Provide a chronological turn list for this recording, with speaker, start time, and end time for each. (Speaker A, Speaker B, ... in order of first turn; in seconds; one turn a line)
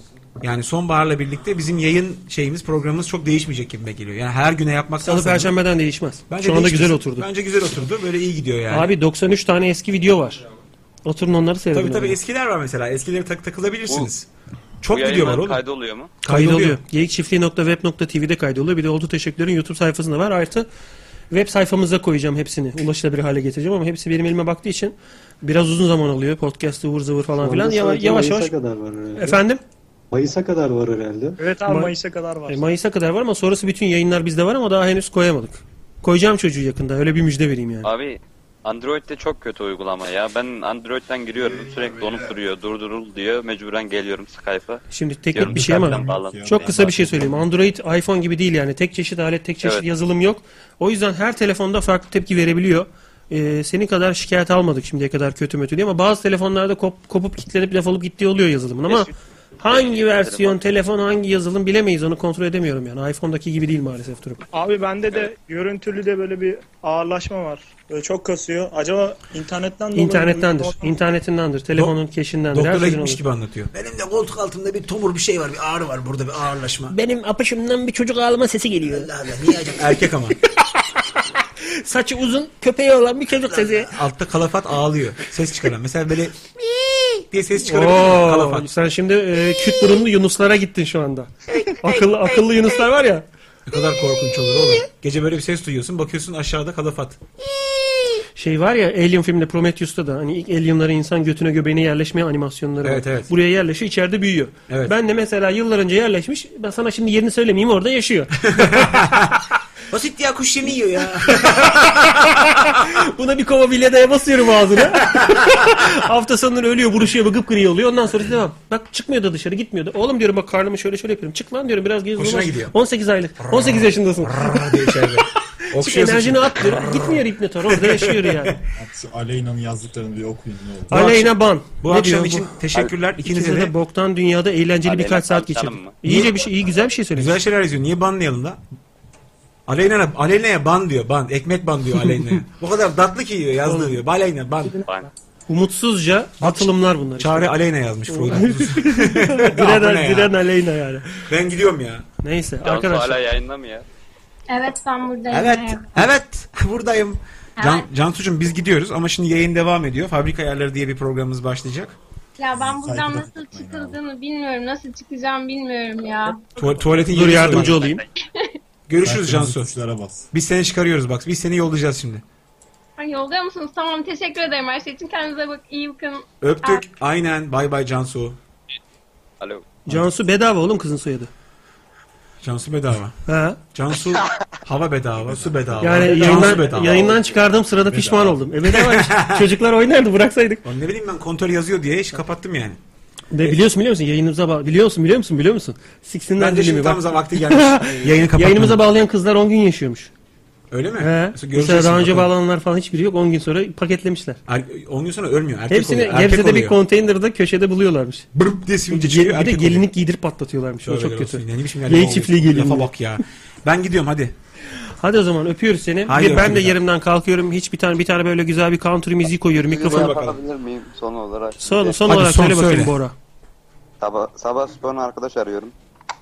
Speaker A: 0.4-5.6
Speaker B: 5.0-7.3
Speaker A: 6.3-8.9
Speaker B: 8.7-10.4
Speaker B: 11.1-12.2
Speaker A: 11.7-14.3
Speaker A: 14.8-15.6
Speaker C: 14.9-16.2
Speaker A: 16.2-16.8
Speaker B: 16.2-20.7
Speaker B: 21.3-28.5
Speaker D: 27.4-29.4
Speaker B: 29.2-29.6
Speaker D: 30.1-31.4
Speaker E: 31.4-32.6
Speaker B: 31.7-31.9
Speaker B: 32.5-37.9
Speaker C: 37.8-46.9
Speaker B: 44.9-64.4
Speaker F: 45.4-47.5
Speaker C: 58.9-59.1
Speaker C: 59.6-60.8
Speaker E: 64.5-70.9
Speaker B: 69.9-73.2
Speaker A: 72.5-77.0
Speaker B: 76.9-79.8
Speaker A: 78.9-80.4
Speaker B: 81.6-83.9
Speaker A: 83.5-88.7
Speaker B: 87.6-93.2
Speaker A: 93.7-97.2
Speaker B: 98.4-109.0
Speaker A: 102.8-103.3
Speaker A: 104.7-104.9
Speaker A: 108.5-112.2
Speaker B: 111.4-124.4
Speaker A: 114.9-115.8
Speaker A: 122.2-122.8
Speaker A: 123.4-128.6
Speaker B: 125.8-128.6
Speaker F: 128.8-131.2
Speaker B: 130.9-132.5
Speaker A: 130.9-133.7
Speaker B: 133.2-137.3
Speaker C: 134.8-136.0
Speaker A: 136.1-136.4
Speaker A: 137.1-138.6
Speaker A: 139.7-144.8
Speaker B: 143.7-144.0
Speaker B: 145.5-147.5
Speaker A: 146.4-150.4
Speaker B: 148.1-151.2
Speaker A: 151.2-152.1
Speaker B: 152.2-153.2
Speaker C: 152.6-153.8
Speaker G: 154.5-156.1
Speaker A: 155.3-162.0
Speaker G: 157.6-157.9
Speaker G: 162.4-166.4
Speaker F: 162.5-164.0
Speaker A: 166.6-167.8
Speaker B: 167.0-168.0
Speaker A: 168.9-169.7
Speaker F: 169.0-170.3
Speaker A: 170.3-172.2
Speaker G: 173.0-176.9
Speaker A: 176.4-178.4
Speaker C: 179.4-179.8
Speaker B: 179.9-181.3
Speaker A: 182.4-183.2
Speaker B: 183.3-183.6
Speaker A: 183.7-187.2
Speaker F: 185.2-188.5
Speaker B: 185.8-190.6
Speaker A: 188.6-189.5
Speaker A: 190.6-192.8
Speaker B: 193.3-200.1
Speaker A: 196.4-198.8
Speaker A: 200.7-202.3
Speaker B: 201.0-204.4
Speaker A: 204.5-206.8
Speaker B: 205.7-208.3
Speaker A: 208.3-209.9
Speaker B: 208.9-212.9
Speaker A: 210.8-214.3
Speaker B: 215.0-220.2
Speaker A: 216.1-216.8
Speaker C: 219.6-222.1
Speaker A: 219.8-220.4
Speaker B: 221.6-223.2
Speaker A: 222.1-222.9
Speaker C: 224.0-225.7